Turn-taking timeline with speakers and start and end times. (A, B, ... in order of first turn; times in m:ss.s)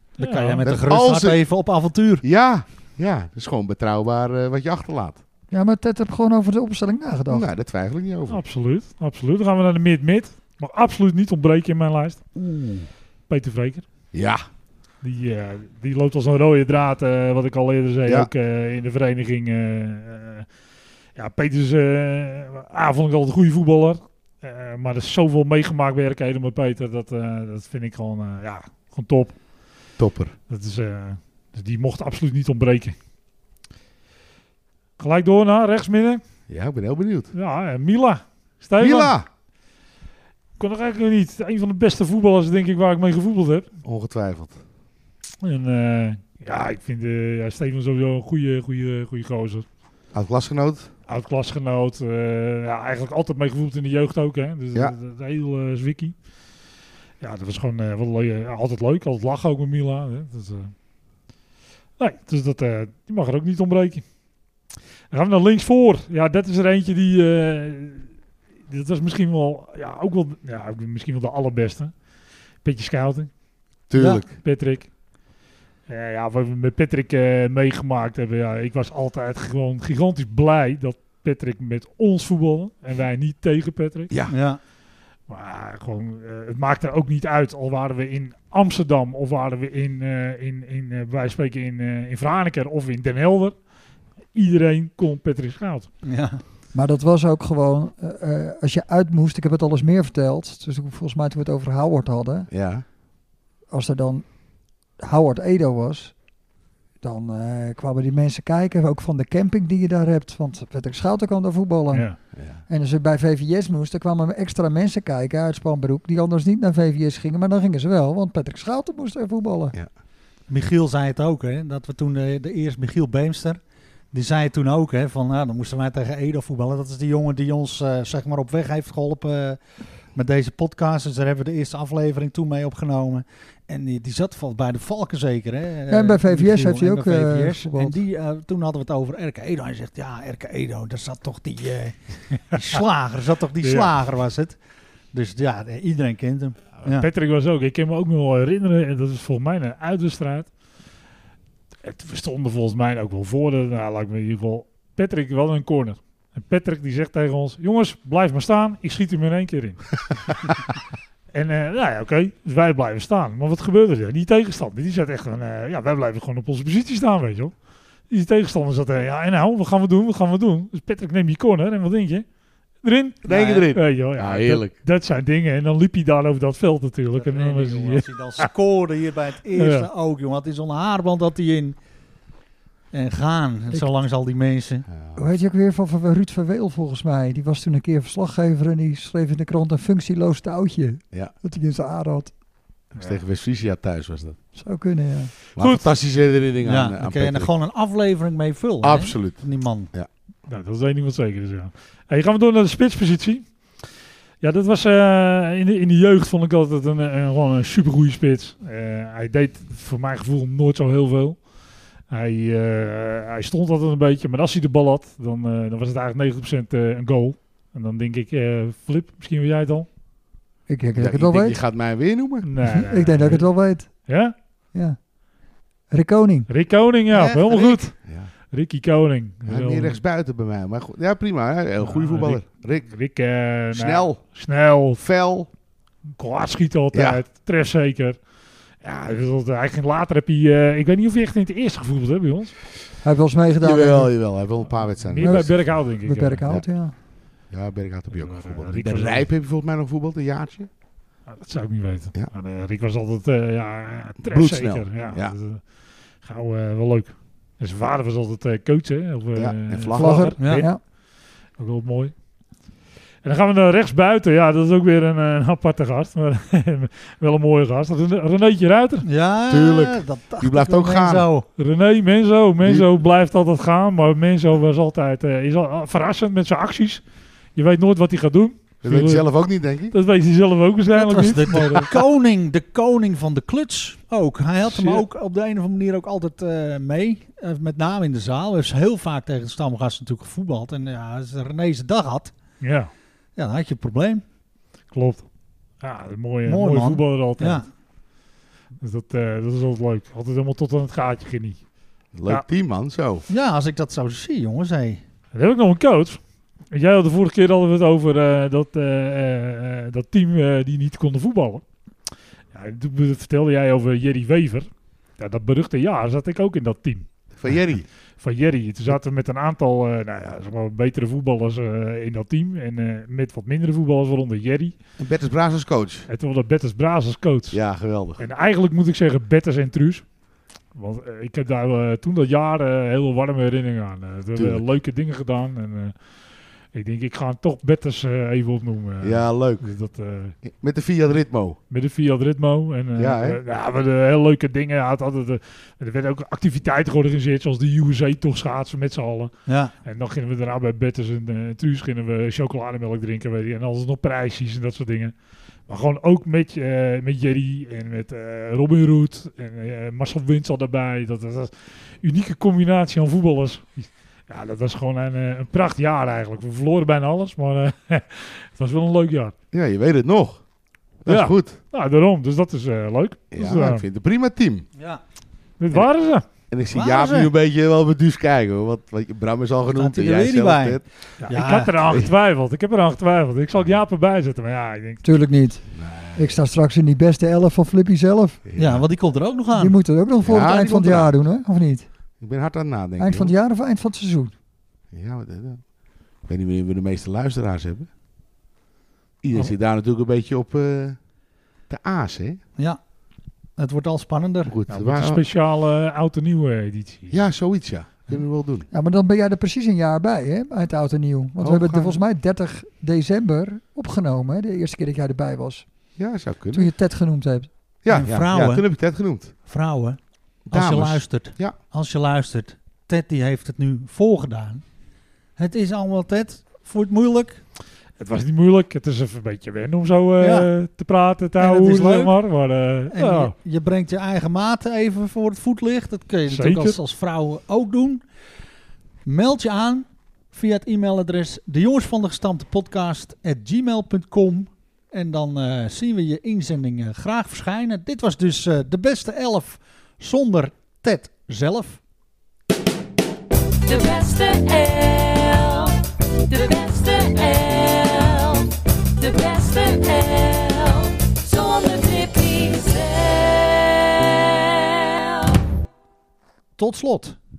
0:00.2-0:00.6 A
0:00.2-0:02.2 B
0:00.6-0:01.4 C
0:02.2-0:05.2 C
0:05.5-0:07.5 D
0:07.3-0:08.4 C
0:08.3-0:12.3 A
0:12.4-0:12.9 C
0:13.3-0:13.8 A
0:14.1-0:14.4 C
0:15.0-0:20.5 A
0:21.2-0:29.4 A
0:30.0-0:30.3 C
0:30.5-0:33.0 A
0:35.0-0:36.2 A
0:36.5-0:37.3 C
0:37.3-0:39.1 A
0:38.8-0:39.3 C
0:40.6-0:43.7 A
0:43.8-0:44.6 C
0:45.4-0:49.7 A
0:50.1-0:50.9 C
0:51.1-0:56.1 A
0:57.2-1:00.7 A
1:02.0-1:04.0 A
1:05.1-1:08.1 A
1:08.7-1:11.9 A
1:12.6-1:13.3 A
1:13.9-1:14.3 C
1:14.0-1:14.2 B
1:14.3-1:14.9 A
1:15.9-1:24.1 A
1:24.3-1:24.6 B
1:25.3-1:33.6 A
1:34.3-1:35.9 A
1:36.0-1:36.4 B
1:36.7-1:42.5 D
1:42.5-1:42.8 C
1:43.7-1:44.3 D
1:45.0-1:46.1 D
1:47.0-1:59.8 D
1:51.9-1:52.2 A
1:52.3-1:52.6 C
2:00.5-2:03.6 B
2:04.1-2:24.6 B
2:15.9-2:18.0 D
2:23.6-2:23.9 A
2:25.1-2:27.1 B
2:26.8-2:30.5 A
2:31.8-2:40.6 A
2:41.3-2:47.5 A
2:48.1-2:52.2 A
2:52.8-2:58.4 A
2:53.2-2:54.7 C
2:53.2-2:53.7 B
2:57.1-3:01.8 B
2:59.6-2:59.9 A
3:02.9-3:04.9 B
3:05.0-3:05.2 C
3:05.2-3:12.3 D
3:12.9-3:14.4 C
3:14.6-3:15.3 D
3:15.6-3:15.9 A
3:15.6-3:17.5 C
3:16.6-3:19.9 B
3:18.8-3:20.1 C
3:20.5-3:23.9 A
3:24.4-3:31.4 A
3:32.1-3:39.9 A
3:40.7-3:41.6 D
3:41.0-3:42.5 C
3:42.4-3:43.5 A
3:42.6-3:44.1 D
3:44.1-3:44.3 A
3:45.9-3:46.5 D
3:46.5-3:48.0 A
3:47.1-3:47.8 B
3:48.0-3:48.3 C
3:48.5-3:50.0 A
3:49.5-3:52.9 C
3:51.8-3:55.0 A
3:53.7-3:54.2 C
3:55.0-3:55.5 C
3:56.2-3:58.2 A
3:56.9-3:57.2 C
3:58.8-4:02.5 A
4:03.0-4:04.1 D
4:03.6-4:05.5 C
4:05.0-4:06.4 A
4:05.2-4:05.5 D
4:06.0-4:06.9 D
4:07.5-4:10.7 C
4:08.1-4:09.3 A
4:11.3-4:15.6 A
4:14.2-4:15.4 C
4:16.2-4:20.8 A
4:19.4-4:20.3 C
4:19.9-4:20.8 D
4:20.4-4:20.7 B
4:21.6-4:22.1 A
4:23.2-4:29.1 A
4:29.0-4:31.5 B
4:29.5-4:31.3 C
4:31.6-4:37.0 A
4:37.6-4:39.3 A
4:38.8-4:39.9 C
4:39.9-4:41.9 A
4:41.0-4:52.3 B
4:44.7-4:45.1 A
4:52.6-4:52.9 A
4:53.4-4:54.2 B
4:54.9-4:55.2 A
4:55.8-4:57.6 A
4:56.4-4:57.7 B
4:58.8-5:01.6 A
5:02.1-5:03.3 C
5:03.3-5:05.0 B
5:05.3-5:06.2 A
5:06.7-5:11.6 A
5:12.5-5:17.1 A
5:17.4-5:17.9 C
5:18.2-5:24.7 A
5:25.0-5:26.1 C
5:26.1-5:27.6 A
5:27.5-5:28.2 C
5:28.2-5:30.0 A
5:30.7-5:36.0 A
5:34.4-5:34.6 C
5:36.7-5:40.4 A
5:39.0-5:39.7 C
5:40.4-5:41.6 C
5:41.7-5:49.3 A
5:43.0-5:43.4 C
5:49.5-5:49.7 B
5:49.8-5:55.1 A
5:55.7-6:09.3 A
6:09.5-6:10.4 C
6:11.0-6:11.6 C
6:11.1-6:13.9 A
6:13.3-6:14.7 C
6:15.6-6:16.2 A
6:16.5-6:20.9 C
6:16.7-6:17.3 B
6:19.7-6:21.7 B
6:21.2-6:25.1 A
6:21.8-6:22.1 C
6:25.0-6:28.4 D
6:25.7-6:26.4 C
6:28.5-6:28.9 C
6:28.6-6:29.8 B
6:29.5-6:31.9 D
6:30.2-6:31.1 C
6:32.2-6:33.3 C
6:33.0-6:34.3 D
6:34.9-6:35.7 C
6:36.2-6:37.9 C
6:39.2-6:41.0 C
6:41.7-6:42.4 C
6:43.6-6:44.5 B
6:44.5-6:45.2 C
6:44.7-6:47.2 A
6:47.1-6:48.7 C
6:48.7-6:55.6 D
6:51.4-6:51.9 C
6:56.0-6:56.7 C
6:56.5-6:57.5 D
6:57.8-6:59.3 C
6:57.9-6:58.6 B
6:59.4-7:00.0 B
7:00.5-7:01.6 C
7:00.5-7:04.6 B
7:05.4-7:07.4 B
7:08.0-7:13.3 A
7:10.2-7:10.5 B
7:11.4-7:12.2 B
7:12.9-7:18.0 B
7:16.3-7:16.8 A
7:19.0-7:31.8 B
7:33.6-7:45.4 E
7:46.6-7:47.2 B